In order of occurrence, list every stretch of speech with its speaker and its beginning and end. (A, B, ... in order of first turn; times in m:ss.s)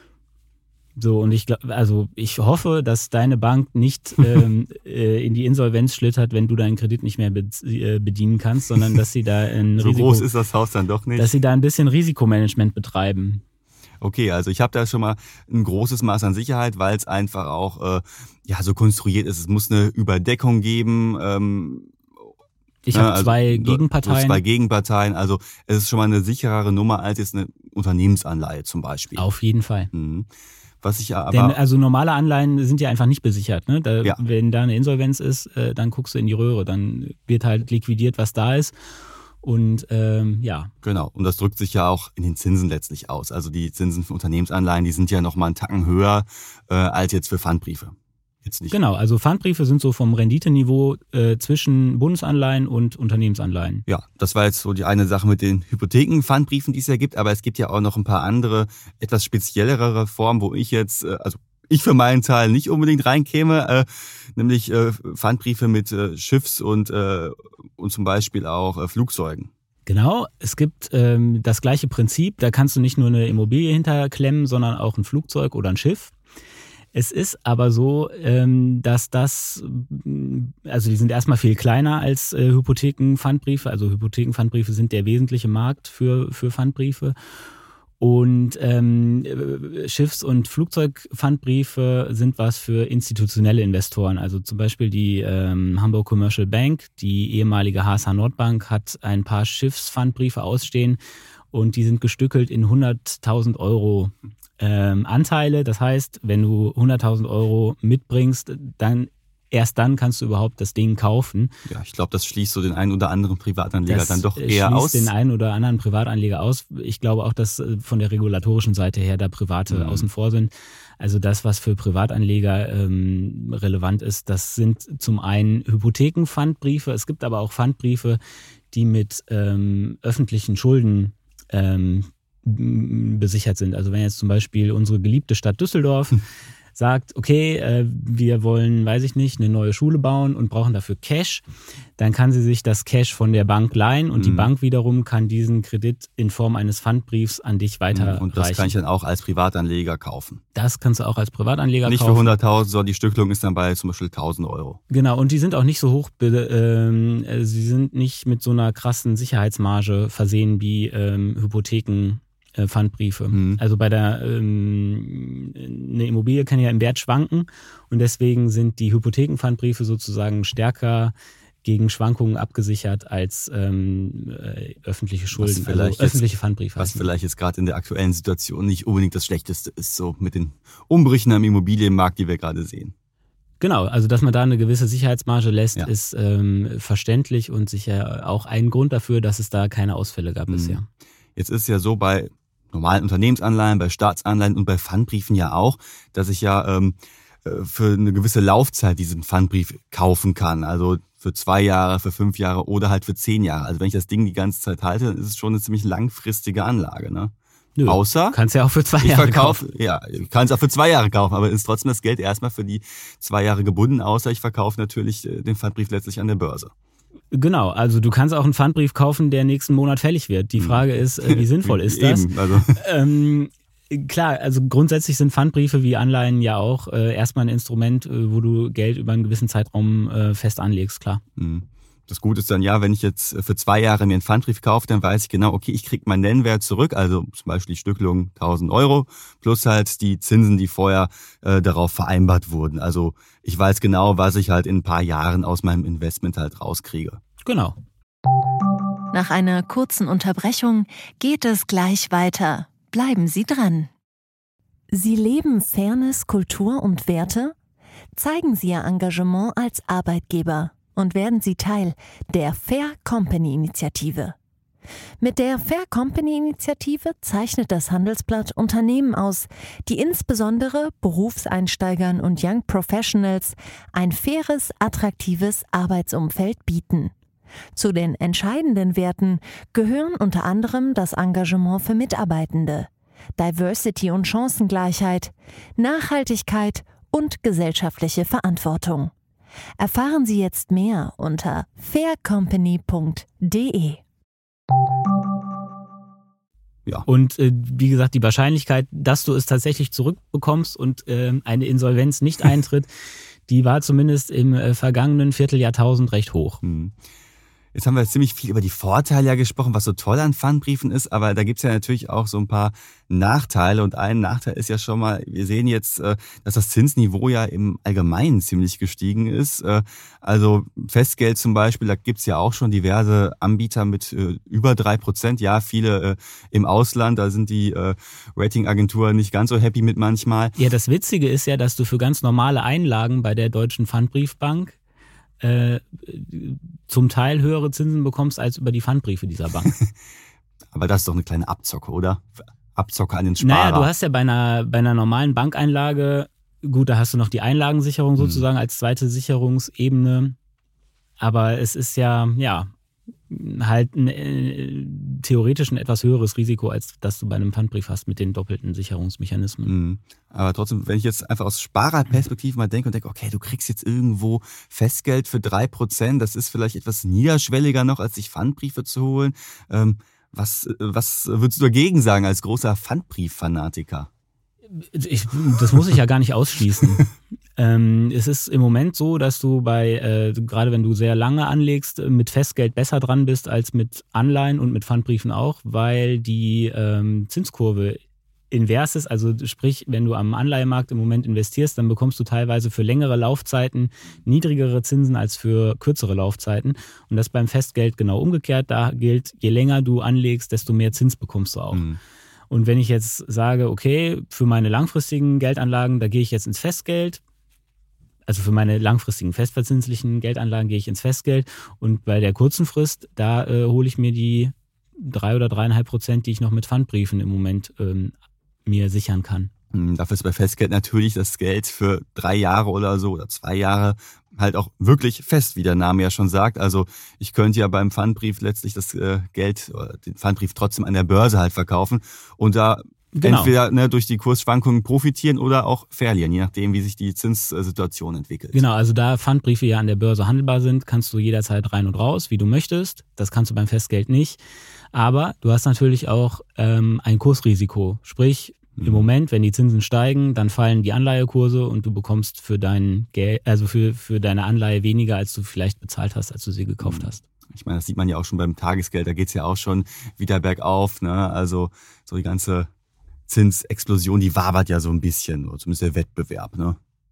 0:01.0-0:10.3 A
0:09.8-0:11.3 B
0:11.2-0:13.4 A
0:14.0-0:21.9 B
0:22.9-0:24.4 A
0:22.9-0:29.2 B
0:29.2-0:29.9 A
0:29.9-0:30.3 B
0:30.8-0:31.6 B
0:31.3-0:38.7 A
0:39.4-0:40.7 A
0:40.8-0:47.9 B
0:48.4-0:48.8 B
0:48.7-0:53.8 A
0:53.9-1:09.5 B
1:09.9-1:16.1 A
1:16.9-1:27.2 A
1:28.0-1:41.0 A
1:41.5-1:51.5 A
1:51.7-1:55.1 B
1:53.9-2:08.2 A
1:59.7-2:00.1 B
2:08.7-2:16.2 A
2:16.8-2:21.4 A
2:22.0-2:28.7 A
2:24.2-2:24.5 B
2:27.9-2:30.4 B
2:30.6-2:32.3 A
2:31.9-2:34.8 B
2:34.9-2:51.1 A
2:43.3-2:43.6 B
2:51.6-2:57.0 A
2:55.3-2:56.2 B
2:56.8-3:02.9 B
3:03.6-3:10.8 A
3:10.5-3:10.8 B
3:11.4-3:27.3 B
3:27.8-3:29.6 A
3:27.9-3:28.4 B
3:29.0-3:36.7 B
3:37.3-3:51.2 A
3:40.6-3:42.8 B
3:51.4-4:07.2 B
4:07.4-4:07.8 A
4:09.1-4:13.9 C
4:14.9-4:17.6 C
4:18.2-4:24.4 C
4:25.2-4:37.1 C
4:37.8-4:49.1 C
4:49.8-4:54.0 C
4:57.1-5:02.9 A
5:03.5-5:06.6 A
5:06.6-5:07.0 B
5:07.7-5:30.5 B
5:30.6-5:34.8 A
5:35.4-5:39.7 A
5:40.7-5:43.9 B
5:43.4-5:50.4 A
5:48.2-5:48.4 B
5:51.2-5:52.7 A
5:53.3-5:59.7 A
5:59.7-6:14.1 B
6:14.8-6:28.0 A
6:28.5-6:41.8 A
6:41.7-6:42.0 B
6:42.5-6:47.2 A
6:48.3-6:58.1 A
6:58.7-6:59.5 A
6:59.7-7:18.6 B
7:13.2-7:13.5 A
7:18.5-7:24.4 A
7:24.9-7:37.2 A
7:28.8-7:29.1 B
7:36.8-7:42.7 B
7:43.3-7:46.8 B